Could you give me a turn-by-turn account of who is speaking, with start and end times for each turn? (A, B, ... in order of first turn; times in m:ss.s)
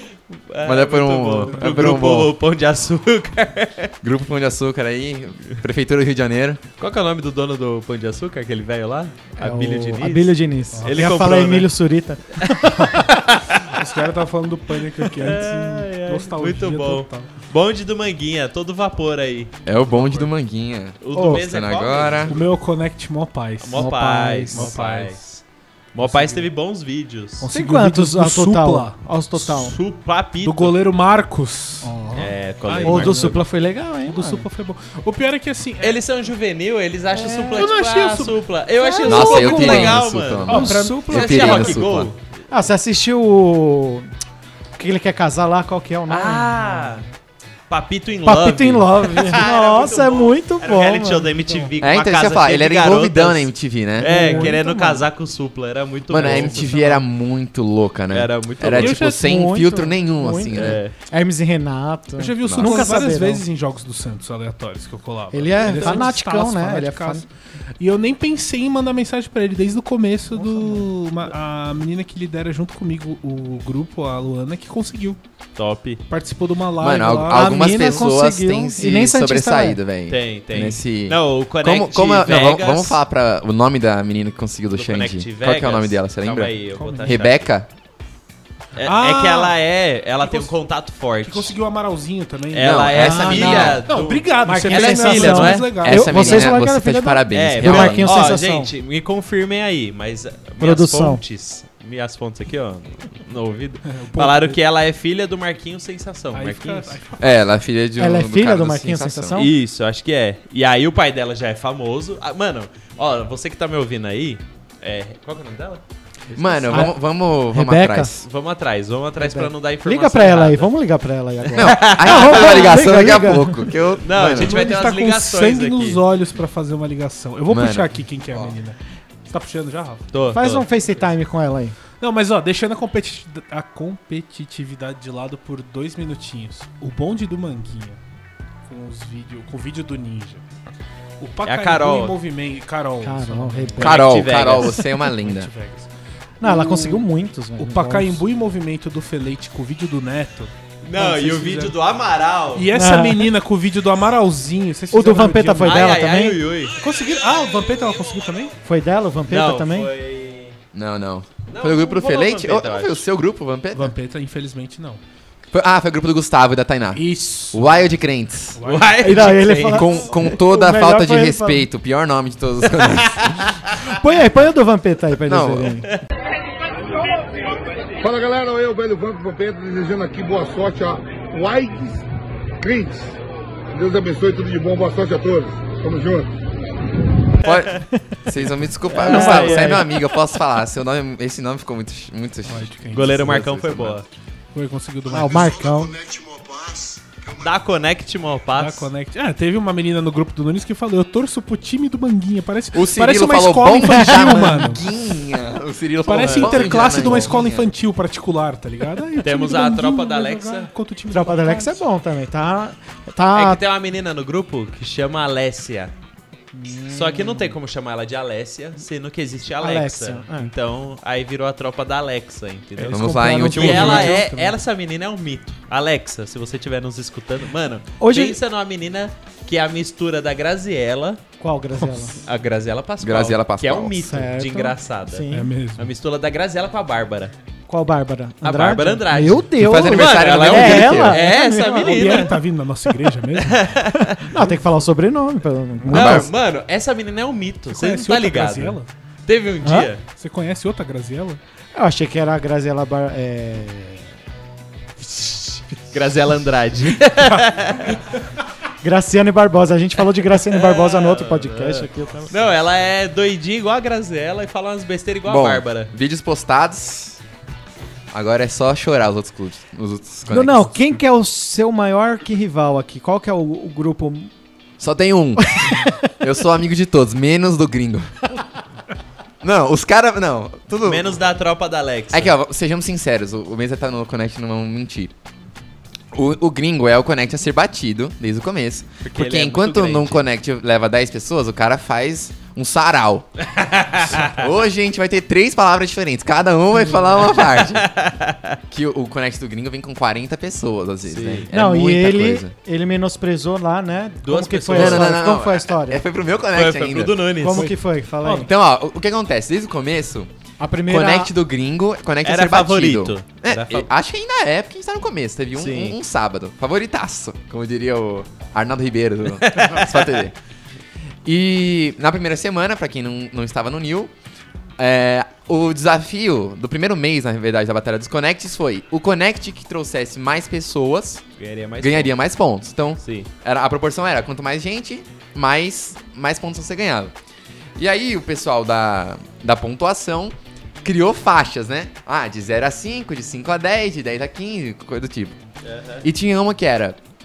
0:00.5-0:03.9 A
0:00.6-0:02.3 B
0:01.4-0:02.0 C
0:04.0-0:06.6 B
0:06.8-0:11.7 A
0:09.4-0:13.0 D
0:10.7-0:11.3 C
0:12.4-0:13.8 A
0:13.6-0:17.3 C
0:15.1-0:19.5 A
0:19.6-0:22.4 B
0:19.9-0:20.3 C
0:21.0-0:22.4 A
0:21.1-0:21.4 D
0:22.3-0:25.2 C
0:23.6-0:25.4 A
0:25.9-0:27.5 A
0:26.0-0:26.5 C
0:27.4-0:29.7 C
0:27.5-0:29.8 D
0:29.5-0:30.8 A
0:30.4-0:33.5 C
0:32.1-0:33.4 A
0:32.8-0:34.5 D
0:34.1-0:36.0 C
0:35.8-0:42.2 A
0:37.1-0:37.7 D
0:37.4-0:38.4 C
0:38.8-0:41.5 D
0:39.0-0:42.1 B
0:40.5-0:41.8 C
0:42.5-0:44.1 D
0:44.8-0:46.8 D
0:46.1-0:47.1 A
0:47.7-0:56.7 A
0:48.2-0:51.7 D
0:51.8-0:54.4 B
0:54.0-0:55.0 C
0:54.0-0:55.0 D
0:56.1-1:00.8 B
0:56.2-0:57.0 C
0:58.1-0:59.0 A
0:58.7-0:59.3 C
0:58.8-1:03.4 D
1:00.5-1:00.9 A
1:02.2-1:07.3 C
1:02.4-1:03.0 B
1:05.3-1:07.2 D
1:05.6-1:06.1 A
1:07.8-1:15.2 C
1:10.3-1:10.9 D
1:15.6-1:16.0 A
1:16.1-1:18.0 C
1:16.8-1:27.7 B
1:17.3-1:19.8 D
1:20.1-1:23.0 A
1:24.8-1:27.5 A
1:26.8-1:27.2 C
1:28.8-1:31.6 A
1:28.8-1:29.6 C
1:30.2-1:30.5 C
1:31.2-1:36.6 C
1:32.5-1:35.8 A
1:32.6-1:33.9 B
1:32.9-1:33.8 D
1:34.4-1:38.7 D
1:35.8-1:38.3 B
1:37.3-1:47.0 A
1:40.6-1:41.2 D
1:43.9-1:44.6 C
1:46.3-1:47.4 C
1:47.2-1:49.4 B
1:48.0-1:49.5 D
1:49.4-1:56.8 A
1:56.4-1:58.3 B
1:57.5-1:58.1 D
1:58.2-2:00.7 A
1:59.2-2:03.6 D
2:01.5-2:02.7 A
2:01.6-2:04.6 B
2:04.0-2:06.0 A
2:04.2-2:10.1 C
2:07.5-2:08.6 B
2:10.1-2:10.7 A
2:10.3-2:11.8 D
2:12.0-2:18.0 C
2:18.7-2:20.4 C
2:21.2-2:25.9 C
2:21.4-2:22.2 A
2:23.0-2:24.1 D
2:23.8-2:25.5 B
2:23.8-2:24.8 A
2:26.4-2:28.2 D
2:26.4-2:27.0 C
2:27.6-2:31.8 C
2:30.8-2:32.7 A
2:32.5-2:35.9 C
2:32.7-2:33.3 D
2:34.9-2:36.4 D
2:35.6-2:36.8 A
2:36.8-2:38.6 C
2:38.6-2:39.9 D
2:39.3-2:40.6 A
2:40.7-2:43.9 B
2:41.5-2:43.0 A
2:43.7-2:45.0 C
2:45.5-2:48.6 B
2:46.9-2:47.7 C
2:48.6-2:49.4 C
2:48.6-2:50.0 A
2:49.0-2:51.7 D
2:49.4-2:53.6 B
2:52.8-2:53.5 A
2:53.8-2:55.9 D
2:55.3-2:55.8 B
2:57.0-2:57.4 E
2:58.0-3:02.0 E
3:02.6-3:03.2 E
3:03.7-3:06.3 E
3:07.4-3:14.0 B
3:08.8-3:09.9 A
3:09.0-3:09.9 D
3:12.5-3:13.3 C
3:12.9-3:14.1 A
3:14.5-3:15.5 C
3:15.1-3:16.1 D
3:17.3-3:18.9 A
3:18.6-3:24.8 C
3:22.7-3:27.7 B
3:26.1-3:31.8 C
3:26.2-3:27.3 A
3:29.2-3:30.7 A
3:31.1-3:33.6 D
3:33.3-3:35.9 A
3:36.5-3:37.6 D
3:36.9-3:51.2 A
3:39.6-3:40.5 D
3:42.8-3:44.6 C
3:42.9-3:44.2 B
3:48.0-3:48.4 D
3:51.4-3:52.2 D
3:51.8-3:52.2 C
3:52.2-3:57.3 A
3:53.0-3:54.1 B
3:54.0-3:55.5 D
3:55.3-3:55.9 C
3:57.7-4:02.3 D
3:58.4-4:02.4 A
3:59.6-4:01.2 B
4:01.5-4:03.7 C
4:03.4-4:04.3 A
4:04.0-4:06.3 D
4:05.8-4:06.2 C
4:05.9-4:06.3 B
4:05.9-4:10.0 A
4:07.7-4:08.9 C
4:09.6-4:09.9 D
4:10.2-4:11.4 C
4:11.7-4:14.1 D
4:15.8-4:18.0 A
4:18.8-4:22.4 D
4:20.3-4:25.9 A
4:25.3-4:27.2 B
4:28.1-4:31.0 B
4:30.3-4:34.3 D
4:34.8-4:38.1 B
4:35.6-4:35.9 D
4:39.4-4:41.2 B
4:40.8-4:42.3 A
4:42.1-4:45.1 B
4:46.1-4:53.3 B
4:49.0-4:50.2 A
4:53.4-4:54.4 A
4:54.1-4:57.9 B
4:57.2-4:58.6 A
4:58.7-5:02.5 B
5:01.1-5:01.5 A
5:01.5-5:06.0 D
5:04.3-5:05.2 A
5:04.7-5:07.2 B
5:06.5-5:07.7 A
5:07.4-5:08.5 D
5:07.5-5:08.5 C
5:08.4-5:10.3 B
5:10.6-5:11.3 D
5:10.9-5:20.4 B
5:12.2-5:13.9 A
5:15.6-5:16.0 A
5:19.4-5:20.1 A
5:21.2-5:24.1 B
5:24.8-5:31.2 B
5:31.4-5:32.1 A
5:31.8-5:37.1 B
5:33.0-5:33.3 A
5:37.8-5:45.4 B
5:45.6-5:46.0 A
5:46.0-5:47.0 B